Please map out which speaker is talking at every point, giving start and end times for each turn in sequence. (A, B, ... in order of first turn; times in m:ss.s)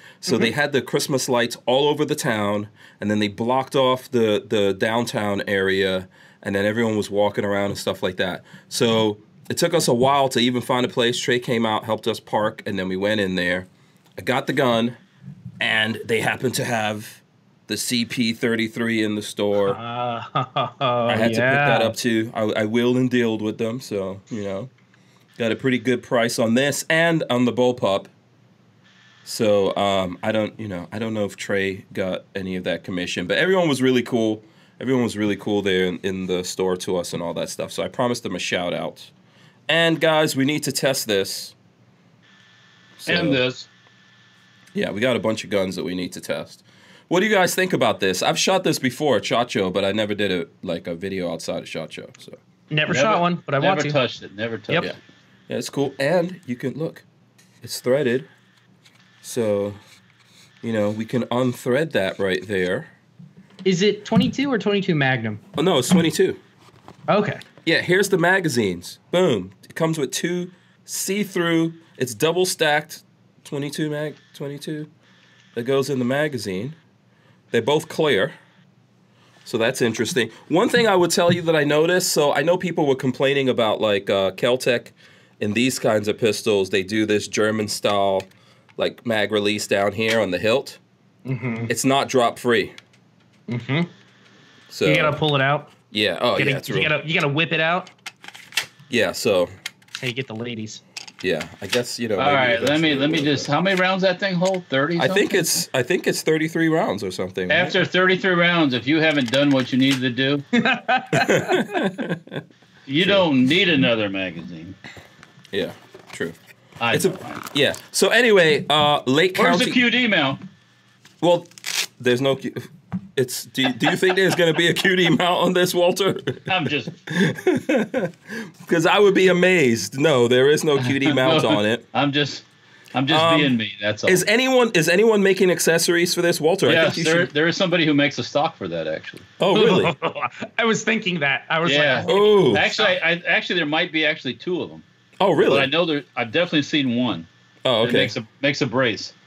0:00.2-0:15.0 A
0:15.6-0:19.8 A
0:19.6-0:21.9 B
0:21.1-0:24.7 A
0:25.4-0:28.1 A
0:29.2-0:39.1 A
0:39.7-0:41.5 A
0:43.0-0:43.4 A
0:43.0-0:43.7 C
0:44.7-0:52.4 A
0:52.7-0:54.0 B
0:52.9-0:54.9 C
0:55.5-0:57.0 A
0:57.6-0:58.3 A
0:59.2-0:59.8 A
1:00.6-1:02.9 A
1:03.6-1:05.4 B
1:05.6-1:06.4 A
1:07.1-1:07.4 B
1:07.6-1:14.9 A
1:15.5-1:16.8 A
1:17.5-1:18.3 A
1:19.4-1:30.8 A
1:31.2-1:31.7 B
1:31.7-1:32.7 A
1:33.5-1:33.9 B
1:34.7-1:35.2 A
1:34.8-1:35.7 B
1:35.9-1:36.9 A
1:36.4-1:37.9 B
1:38.9-1:39.5 A
1:40.0-1:40.8 B
1:41.2-1:43.5 A
1:42.2-1:45.5 C
1:45.0-1:47.8 A
1:47.5-1:50.4 C
1:50.5-1:51.7 B
1:51.1-1:52.4 A
1:52.9-1:54.8 C
1:55.5-1:56.4 A
1:56.8-1:57.4 C
1:56.9-1:59.8 A
1:59.3-2:00.4 C
2:01.2-2:06.5 A
2:06.5-2:06.9 C
2:07.0-2:11.8 A
2:10.8-2:14.2 C
2:13.1-2:17.3 A
2:16.6-2:19.3 C
2:19.4-2:19.9 A
2:19.5-2:22.9 B
2:21.6-2:24.8 C
2:22.0-2:22.7 A
2:25.2-2:25.7 A
2:25.4-2:27.3 C
2:27.6-2:28.1 A
2:27.8-2:29.1 C